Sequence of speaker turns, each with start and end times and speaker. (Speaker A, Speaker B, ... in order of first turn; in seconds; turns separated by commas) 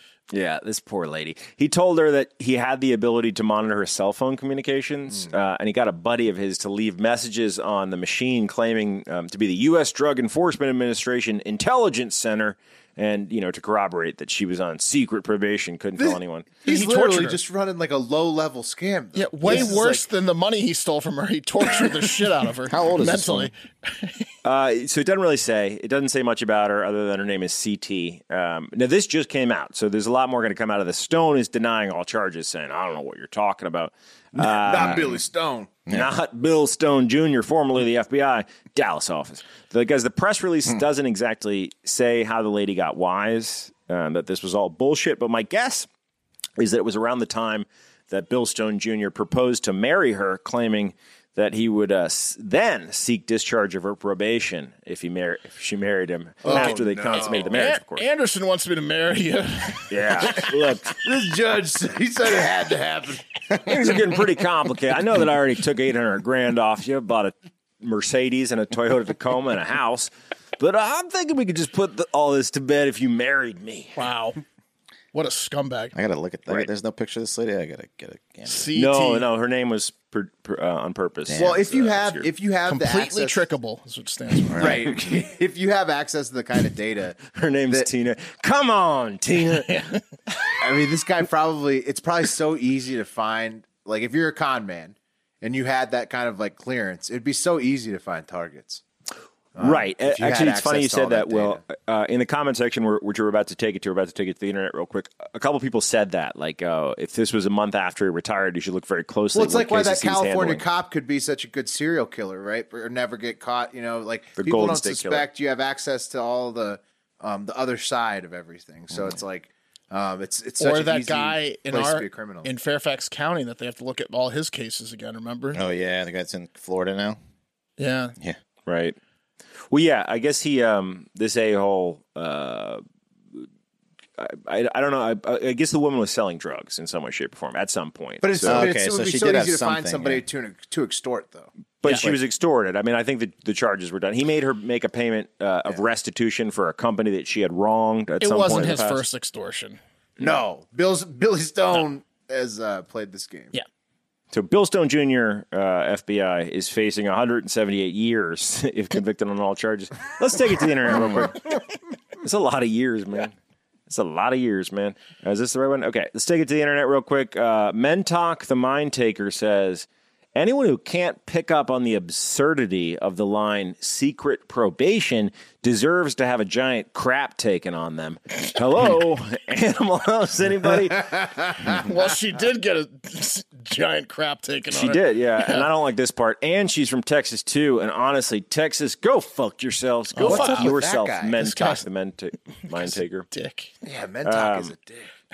Speaker A: 0.3-16.5, Speaker B: 16.0-20.1, Speaker C: 16.6-17.4, Speaker C: 19.1-24.3, Speaker D: 22.7-23.5, Speaker A: 24.4-35.2, Speaker B: 34.4-35.7, Speaker A: 35.9-45.9, Speaker A: 46.6-58.0, Speaker B: 56.4-57.5, Speaker C: 56.5-56.8, Speaker C: 57.3-60.1, Speaker A: 59.9-61.0, Speaker B: 60.9-64.0, Speaker A: 63.6-74.0, Speaker C: 74.0-74.4, Speaker C: 75.1-75.9, Speaker D: 76.0-78.7, Speaker C: 78.5-79.2, Speaker A: 78.7-82.3, Speaker D: 81.3-81.5, Speaker B: 81.3-83.4, Speaker C: 82.7-84.9, Speaker D: 84.5-84.8, Speaker B: 84.6-87.9, Speaker A: 87.3-89.8, Speaker C: 89.7-90.0, Speaker B: 90.6-98.8, Speaker B: 99.6-101.6, Speaker A: 99.6-110.7, Speaker B: 109.3-122.5, Speaker A: 114.4-115.3, Speaker C: 120.6-125.6, Speaker D: 125.5-127.2, Speaker C: 127.8-128.2, Speaker A: 128.7-129.0, Speaker A: 129.7-132.8, Speaker A: 134.2-138.7, Speaker B: 138.2-141.5, Speaker D: 138.5-140.2, Speaker A: 141.8-149.0, Speaker C: 141.8-142.2, Speaker C: 148.2-149.8, Speaker B: 150.2-153.5, Speaker A: 154.3-161.6, Speaker A: 162.2-163.3, Speaker A: 163.9-181.3, Speaker C: 181.7-185.6, Speaker A: 184.7-193.3, Speaker C: 190.1-190.7, Speaker B: 190.2-191.4, Speaker C: 191.4-191.8, Speaker C: 192.7-193.7, Speaker B: 193.8-195.1, Speaker A: 194.2-194.7